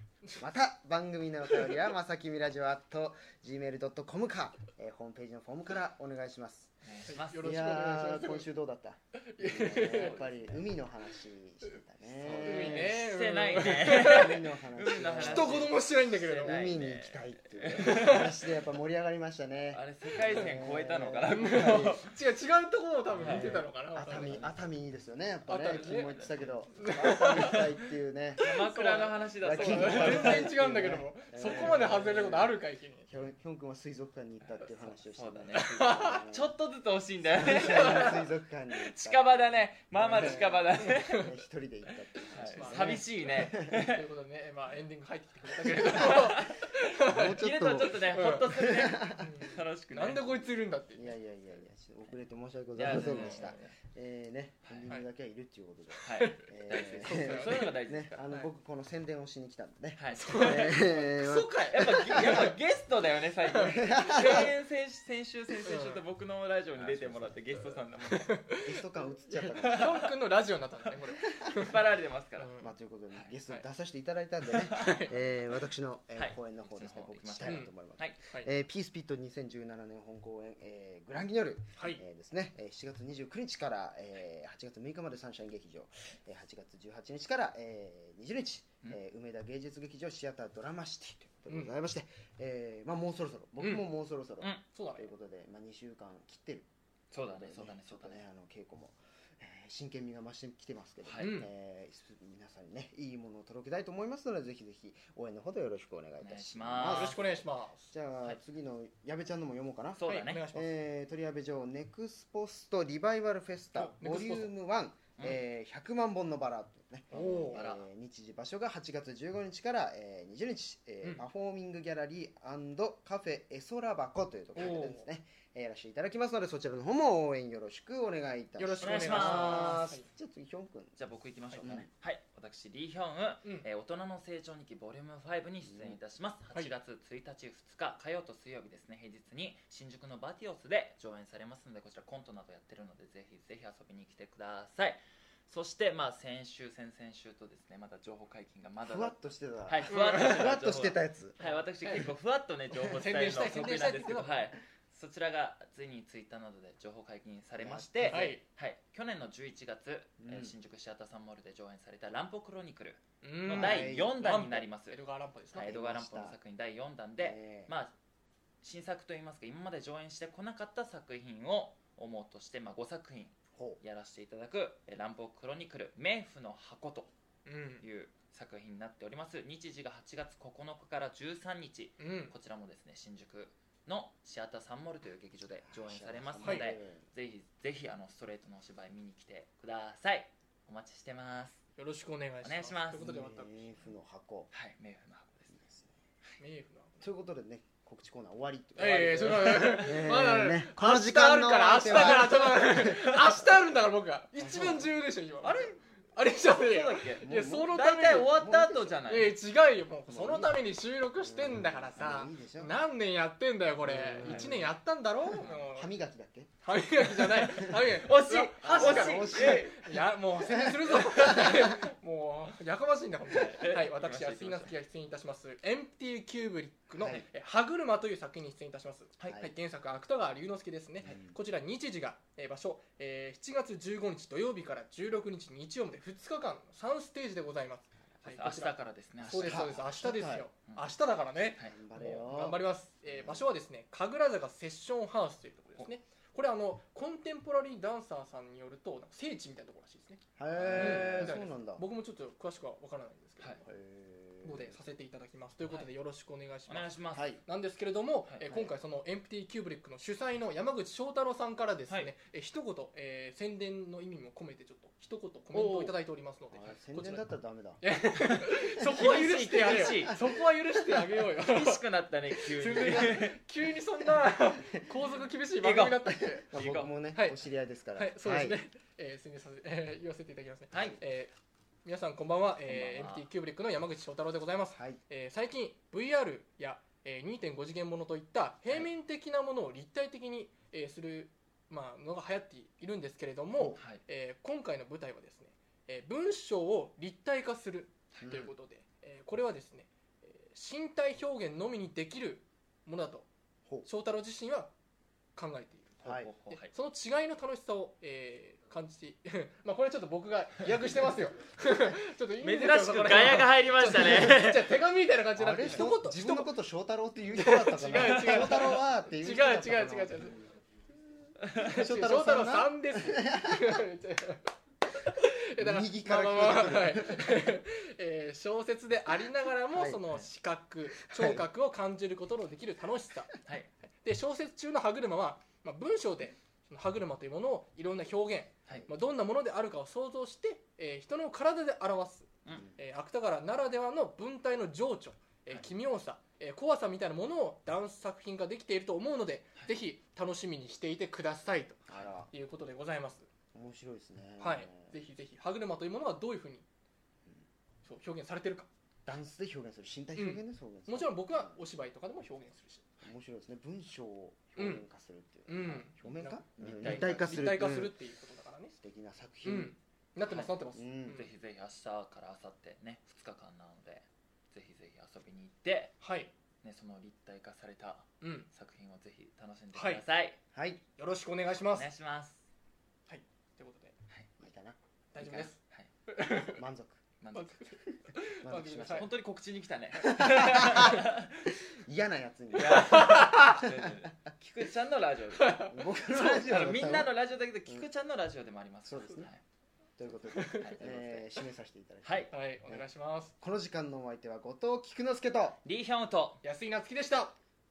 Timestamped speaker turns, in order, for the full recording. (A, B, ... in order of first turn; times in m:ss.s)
0:00.4-0:06.7 A
0:06.8-0:07.8 B
0:07.1-0:08.5 C
0:07.4-0:13.0 A
0:09.2-0:10.2 C
0:09.8-0:10.7 B
0:12.2-0:18.6 B
0:12.4-0:14.5 C
0:13.7-0:15.8 A
0:15.1-0:16.7 C
0:16.3-0:22.0 A
0:17.8-0:18.4 C
0:19.7-0:22.1 B
0:21.3-0:24.5 C
0:23.2-0:28.5 A
0:23.2-0:23.6 B
0:25.5-0:27.7 C
0:25.7-0:26.6 B
0:28.4-0:30.5 B
0:28.4-0:33.1 C
0:29.4-0:32.6 A
0:33.1-0:36.6 A
0:34.6-0:41.3 B
0:35.6-0:36.2 C
0:37.3-0:43.7 A
0:37.5-0:38.1 C
0:40.1-0:41.3 C
0:42.3-0:44.1 B
0:42.4-0:47.5 C
0:45.6-0:50.6 B
0:46.9-0:49.3 A
0:48.0-0:51.1 C
0:51.0-1:02.5 A
0:52.8-0:53.7 B
0:52.8-0:53.6 C
0:56.0-0:57.8 C
0:56.0-0:58.5 B
1:00.0-1:08.4 B
1:00.2-1:02.5 C
1:03.5-1:04.5 C
1:03.7-1:04.5 A
1:05.6-1:06.0 C
1:06.8-1:07.8 A
1:08.1-1:08.8 C
1:08.6-1:10.0 A
1:09.4-1:11.8 C
1:09.6-1:10.1 B
1:11.3-1:12.5 B
1:12.4-1:12.7 C
1:12.6-1:36.7 A
1:14.5-1:15.1 B
1:14.7-1:15.1 C
1:16.2-1:18.2 B
1:17.4-1:17.7 C
1:34.7-1:35.1 C
1:37.1-1:38.2 B
1:37.2-1:47.4 A
1:41.0-1:41.4 B
1:41.2-1:41.5 C
1:46.2-1:47.2 B
1:46.9-1:47.9 C
1:47.9-2:11.0 A
1:50.0-1:50.5 B
1:50.1-1:50.7 C
1:53.8-1:54.5 C
1:57.1-1:57.6 C
1:57.5-1:57.8 B
2:04.6-2:05.0 C
2:08.6-2:10.1 C
2:08.8-2:09.8 B
2:11.0-2:45.0 B
2:11.6-2:11.9 A
2:15.6-2:16.0 A
2:28.8-2:31.5 A
2:29.9-2:30.5 C
2:32.8-2:34.4 C
2:37.6-2:38.3 A
2:38.0-2:38.4 C
2:40.2-2:40.5 A
2:43.2-2:45.7 C
2:43.5-2:44.2 A
2:45.5-2:47.9 B
2:45.5-2:46.4 A
2:47.2-2:47.7 A
2:48.6-2:57.1 B
2:53.6-2:53.8 A
2:57.5-2:57.8 C
2:57.8-3:11.6 B
3:02.0-3:02.3 C
3:05.7-3:07.1 A
3:06.4-3:06.7 C
3:11.8-3:13.7 C
3:12.4-3:13.2 B
3:13.0-3:14.5 A
3:14.5-3:15.5 B
3:15.5-3:15.9 A
3:16.4-3:16.9 C
3:17.0-3:23.4 A
3:18.8-3:28.4 C
3:21.9-3:23.4 B
3:24.4-3:24.9 A
3:25.4-3:29.4 B
3:27.2-3:29.0 A
3:29.0-3:35.9 C
3:30.1-3:30.6 A
3:31.2-3:32.8 A
3:33.8-3:36.5 A
3:34.2-3:34.6 B
3:36.6-4:10.2 C
3:37.2-3:39.8 B
3:38.6-3:41.8 A
3:43.3-3:44.7 B
3:47.0-3:47.3 B
3:49.3-3:49.5 A
3:51.0-3:51.4 A
3:58.2-3:59.9 B
3:59.2-4:00.5 A
4:01.6-4:03.4 A
4:10.4-4:11.8 A
4:10.5-4:11.4 B
4:10.8-4:13.6 C
4:13.6-4:14.8 A
4:14.4-4:27.2 C
4:16.7-4:17.4 B
4:17.2-4:17.4 A
4:25.5-4:26.0 B
4:26.5-4:30.2 A
4:27.8-4:36.5 C
4:28.4-4:30.2 B
4:31.3-4:33.4 B
4:35.6-4:36.9 B
4:36.4-4:38.6 A
4:38.0-4:41.3 C
4:40.7-4:41.0 B
4:41.8-5:03.3 C
4:42.7-4:43.3 B
4:53.8-4:54.0 B
4:58.2-4:58.5 B
5:03.8-5:04.7 C
5:05.4-5:16.5 C
5:06.0-5:06.3 A
5:06.2-5:06.7 B
5:12.4-5:14.8 B
5:15.4-5:20.5 A
5:17.3-5:20.4 C
5:18.0-5:18.8 B
5:21.4-5:21.7 B
5:21.6-5:23.8 A
5:21.6-5:33.4 C
5:25.6-5:27.6 A
5:29.7-5:30.0 A
5:31.0-5:31.4 A
5:34.0-5:53.3 C
5:51.9-5:52.3 A
5:53.5-5:54.9 A
5:54.4-5:56.7 C
5:57.8-5:58.7 C
5:59.1-6:01.6 A
6:00.2-6:02.9 C
6:03.0-6:07.9 A
6:04.6-6:04.8 C
6:05.5-6:08.8 C
6:06.6-6:07.6 B
6:08.8-6:09.8 A
6:09.4-6:11.3 C
6:10.7-6:11.2 A
6:11.1-6:16.0 B
6:16.0-6:16.3 C
6:16.6-6:20.4 B
6:18.2-6:18.5 C
6:19.7-6:20.0 C
6:20.5-6:20.8 A
6:21.0-6:21.9 C
6:21.7-6:22.5 B
6:23.1-6:24.0 C
6:24.4-6:24.8 A
6:25.1-6:26.6 C
6:25.2-6:25.9 B
6:26.5-6:27.0 A
6:27.2-6:27.6 B
6:27.3-6:29.1 C
6:27.9-6:29.1 A
6:28.9-6:31.6 B
6:30.0-6:34.1 A
6:32.5-6:39.4 B
6:32.6-6:33.6 C
6:35.4-6:36.4 C
6:35.7-6:37.1 A
6:38.9-6:39.3 A
6:40.0-6:42.8 A
6:40.3-6:40.8 C
6:40.4-6:41.3 B
6:42.0-6:42.3 B
6:42.3-6:43.3 C
6:43.4-6:45.6 A
6:45.6-6:46.4 B
6:46.4-6:47.4 C